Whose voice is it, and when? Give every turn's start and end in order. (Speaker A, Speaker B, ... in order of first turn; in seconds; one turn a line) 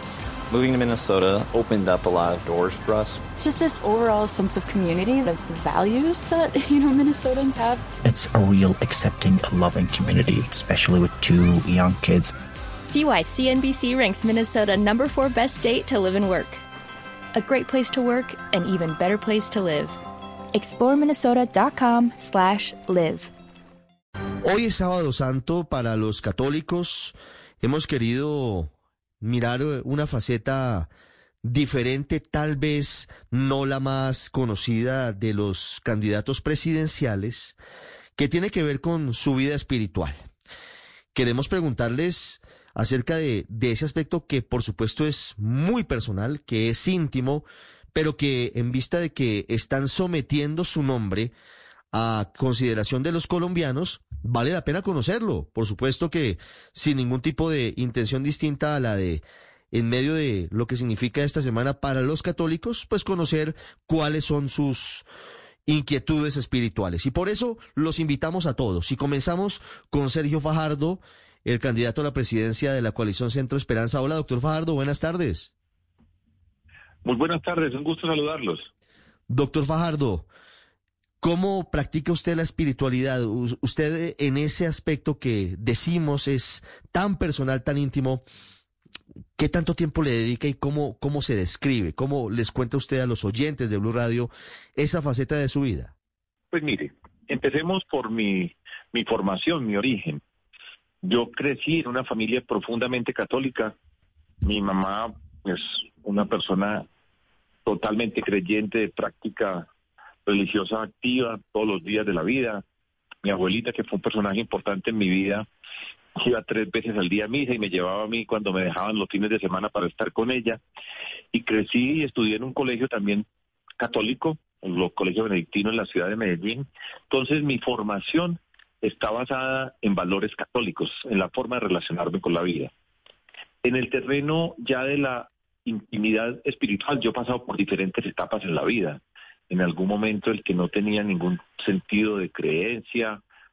Speaker A: 0.5-3.2
Speaker B: 3.4-7.8
Speaker C: 8.0-12.3
Speaker D: 12.8-16.6
Speaker D: 17.3-19.9
Speaker D: 20.5-23.3
Speaker E: 24.4-30.9
Speaker E: 31.4-37.5
Speaker E: 38.1-40.2
Speaker E: 41.1-51.3
Speaker E: 51.9-65.0
Speaker E: 65.7-75.5
Speaker F: 77.0-78.7
Speaker E: 79.3-80.3
Speaker E: 81.2-88.2
Speaker E: 89.4-95.9
Speaker F: 96.5-100.2
Speaker F: 101.0-103.7
Speaker F: 104.4-106.8
Speaker F: 107.7-109.7
Speaker F: 110.2-112.6
Speaker F: 113.2-115.5
Speaker F: 116.2-120.6
Speaker F: 121.3-123.2
Speaker F: 123.8-132.7
Speaker F: 133.6-143.2